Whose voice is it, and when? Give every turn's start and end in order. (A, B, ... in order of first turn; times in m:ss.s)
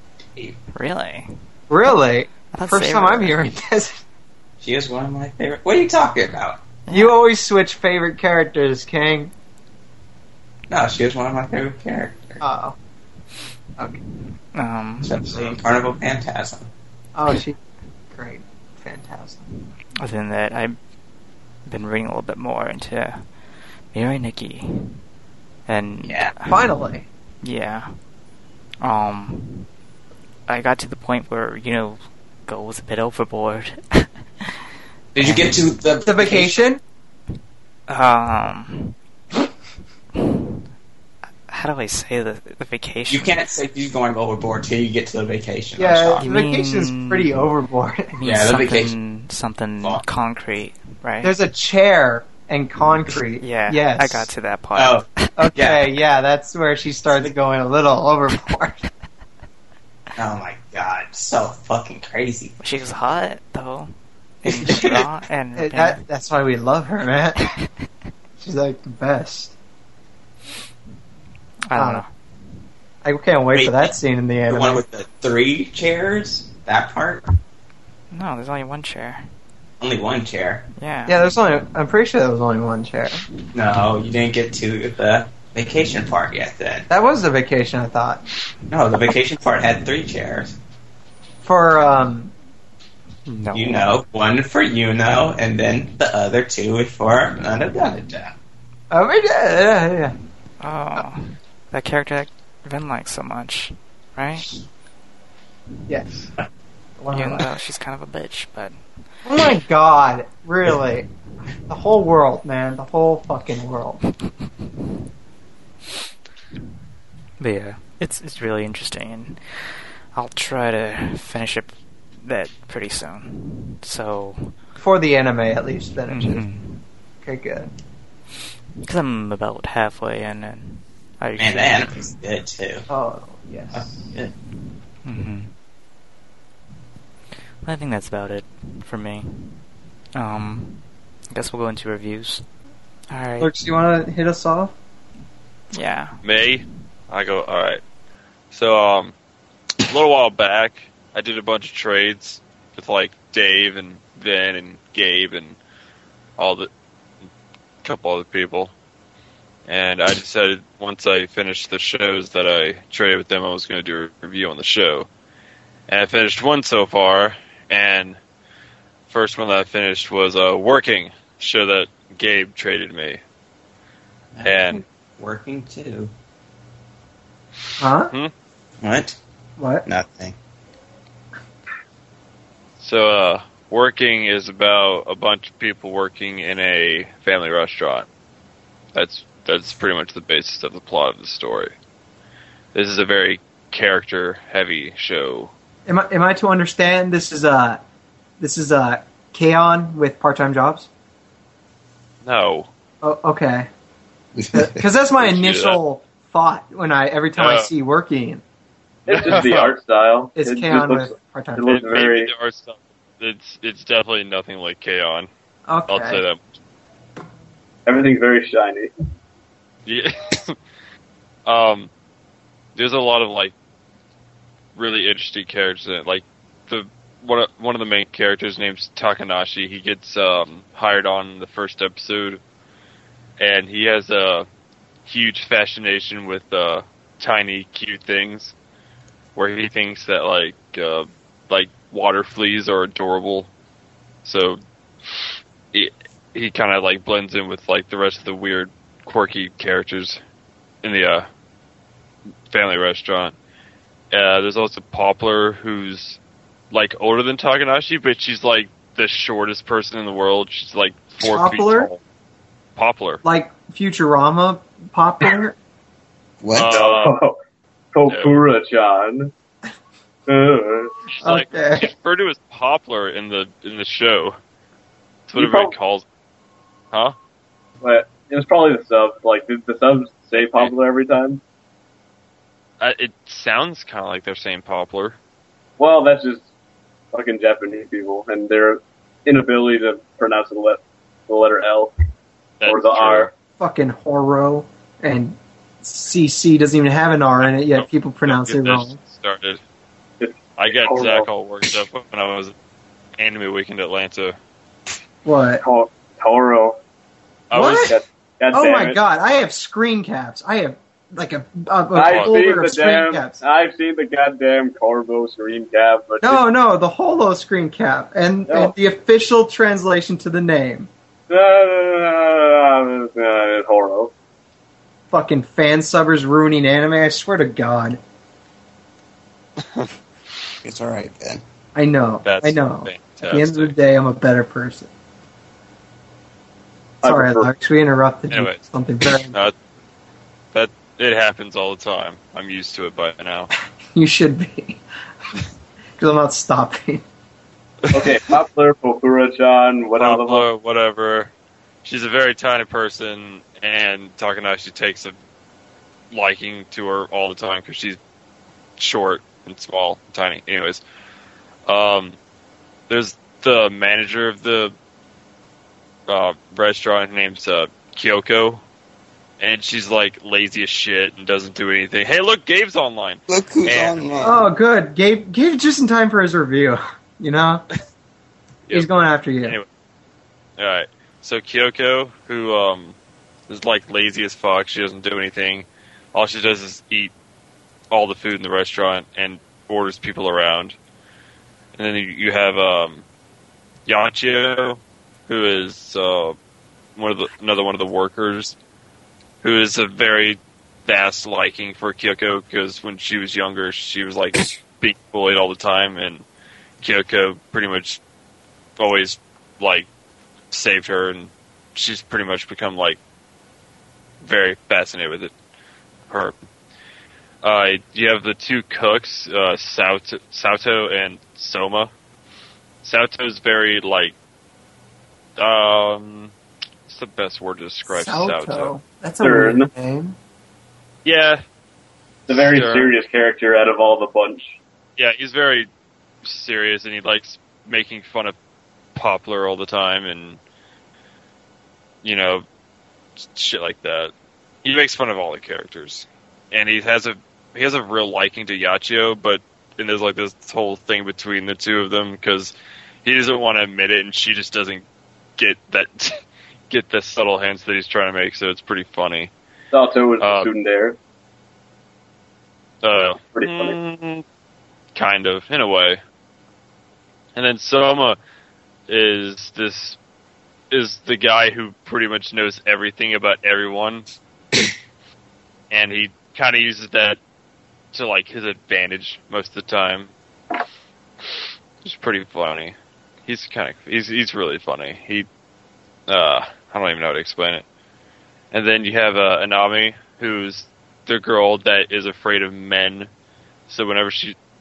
0:00.7-0:01.3 A
0:01.7-0:04.0 B
0:02.5-0:03.5 A
0:04.6-0:06.6 C
0:06.9-0:07.1 A
0:06.9-0:09.3 B
0:10.7-0:12.4 C
0:12.4-0:12.8 B
0:14.5-0:15.2 A
0:15.0-0:16.7 C
0:17.2-0:17.6 B
0:18.1-0:19.4 B
0:20.0-0:20.8 A
0:21.7-0:23.2 A
0:23.9-0:25.0 A
0:25.7-0:26.6 A
0:26.0-0:26.3 C
0:26.5-0:27.1 B
0:27.4-0:27.9 A
0:28.8-0:29.7 A
0:30.5-0:34.6 A
0:35.1-0:36.6 C
0:35.2-0:35.6 A
0:36.0-0:36.8 B
0:37.9-0:39.0 A
0:40.2-0:40.5 A
0:41.5-0:43.4 A
0:43.1-0:46.3 C
0:45.8-0:48.1 B
0:46.2-0:47.3 A
0:48.1-0:51.3 A
0:48.2-0:48.9 C
0:51.2-0:54.3 B
0:53.4-0:55.4 A
0:54.8-0:55.8 C
0:55.4-0:58.8 B
1:00.2-1:02.6 C
1:02.6-1:06.0 A
1:04.4-1:05.1 C
1:05.6-1:07.4 B
1:08.4-1:09.6 B
1:11.7-1:12.1 A
1:11.7-1:12.0 B
1:13.0-1:14.8 B
1:13.5-1:17.3 C
1:18.1-1:19.3 A
1:19.8-1:20.6 C
1:20.8-1:21.3 A
1:21.1-1:23.2 B
1:23.5-1:26.9 C
1:26.9-1:28.2 B
1:28.7-1:30.6 C
1:31.4-1:32.3 B
1:33.3-1:34.0 A
1:33.5-1:38.4 C
1:38.9-1:40.2 B
1:40.6-1:44.5 A
1:45.9-1:46.2 B
1:47.0-1:47.5 B
1:47.1-1:48.8 A
1:49.2-1:51.1 B
1:51.7-1:54.0 B
1:57.4-2:04.6 A
2:04.8-2:06.4 B
2:06.1-2:06.8 A
2:07.2-2:07.7 B
2:08.8-2:12.0 A
2:11.4-2:12.9 C
2:12.9-2:14.0 B
2:13.7-2:14.3 C
2:15.0-2:15.6 A
2:17.6-2:19.6 A
2:20.2-2:22.5 A
2:23.1-2:23.5 A
2:23.4-2:24.7 B
2:25.7-2:26.2 A
2:26.2-2:27.8 D
2:28.5-2:29.1 D
2:29.8-2:35.6 D
2:36.4-2:36.7 D
2:37.8-2:38.7 D
2:39.7-2:45.1 D
2:45.9-2:48.2 D
2:49.1-2:53.2 D
2:54.3-2:56.1 C
2:54.4-2:54.8 D
2:57.8-2:58.1 B
2:58.8-2:59.2 C
2:59.6-2:59.8 B
2:59.9-3:00.4 C
3:02.8-3:08.1 D
3:09.0-3:11.7 D
3:12.7-3:15.5 D
3:15.9-3:17.8 B
3:18.4-3:20.9 B
3:22.2-3:22.7 D
3:23.0-3:23.7 B
3:24.4-3:24.8 C
3:24.5-3:28.4 B
3:25.2-3:25.8 D
3:27.4-3:27.7 D
3:29.1-3:29.7 D
3:29.1-3:32.3 E
3:30.4-3:31.8 B
3:31.7-3:35.3 D
3:35.7-3:36.2 B
3:35.9-3:36.4 D
3:37.9-3:38.9 E
3:39.9-3:40.6 D
3:41.5-3:41.9 D
3:42.8-3:43.5 D
3:44.8-3:52.4 D
3:53.4-3:54.5 D
3:55.0-3:58.5 D
3:59.4-4:03.5 D
4:04.2-4:04.6 D
4:05.7-4:10.2 D
4:10.8-4:11.3 D
4:12.5-4:13.4 D
4:14.1-4:16.2 D
4:16.7-4:22.0 D
4:21.2-4:21.9 B
4:22.8-4:23.2 D
4:23.2-4:25.6 B
4:26.4-4:26.8 C
4:26.6-4:27.2 D
4:26.7-4:27.4 E
4:27.9-4:29.3 E
4:28.1-4:28.4 D
4:30.3-4:31.0 E
4:31.1-4:34.4 D
4:31.2-4:31.9 B
4:35.3-4:36.0 D
4:35.4-4:35.8 E
4:37.8-4:41.4 E
4:40.4-4:40.7 D
4:42.8-4:45.2 D
4:45.8-4:46.5 E
4:47.1-4:51.9 E
4:52.6-4:53.3 D
4:52.6-4:53.3 E
4:53.6-4:59.0 B
4:57.4-4:59.6 D
5:00.2-5:01.3 E
5:00.6-5:02.5 D
5:03.2-5:04.4 D
5:05.2-5:05.6 B
5:05.6-5:06.8 E
5:07.5-5:07.9 D
5:07.5-5:08.0 B
5:07.7-5:09.0 E
5:08.5-5:13.4 B
5:11.9-5:16.4 E
5:12.0-5:12.4 D
5:16.2-5:20.9 B
5:18.5-5:18.8 E
5:21.3-5:24.1 E
5:25.1-5:28.0 B
5:29.6-5:29.9 D
5:30.6-5:31.4 C
5:31.8-5:34.9 B
5:32.2-5:33.8 D
5:37.0-5:37.5 E
5:37.0-5:39.4 B
5:38.3-5:38.6 D
5:39.3-5:39.5 D
5:40.5-5:43.5 D
5:44.0-5:44.8 B
5:46.0-5:47.0 B
5:47.8-5:48.1 D
5:47.9-5:50.5 E
5:50.0-5:51.3 D
5:51.8-5:55.2 D
5:56.1-5:58.0 D
5:58.8-6:00.8 D
6:01.7-6:02.2 D
6:02.9-6:04.7 D
6:06.1-6:08.6 D
6:09.4-6:14.0 D
6:13.3-6:14.5 C
6:14.2-6:17.6 B
6:18.7-6:19.6 B
6:20.6-6:23.0 D
6:23.5-6:27.1 D
6:27.9-6:30.8 D
6:31.8-6:33.0 D
6:33.9-6:36.4 D
6:37.0-6:38.6 D
6:39.4-6:46.2 D
6:46.8-6:48.0 D
6:48.8-6:49.9 D
6:50.5-6:53.0 D
6:54.2-6:55.3 D
6:56.1-6:56.4 D
6:57.4-7:01.9 D
7:02.8-7:04.2 D
7:05.4-7:06.3 D
7:06.9-7:08.8 D
7:07.9-7:10.2 B
7:09.2-7:09.7 E
7:11.0-7:11.4 D
7:12.3-7:14.6 E
7:12.3-7:12.9 D
7:15.0-7:15.7 D
7:16.2-7:18.4 D
7:19.0-7:20.4 D
7:22.0-7:22.4 D
7:23.2-7:24.1 D
7:24.6-7:34.8 D
7:35.4-7:36.2 D
7:36.7-7:39.3 D
7:39.7-7:41.0 E
7:40.2-7:40.5 D
7:42.8-7:44.2 D
7:43.4-7:43.8 E
7:45.0-7:46.0 D
7:47.4-7:48.2 D
7:48.9-7:50.0 D
7:50.7-7:54.1 D
7:55.7-7:57.2 D
7:57.9-8:00.1 D
8:01.2-8:02.8 D
8:03.3-8:05.3 D
8:06.1-8:07.6 D
8:08.5-8:13.1 D
8:13.7-8:14.4 D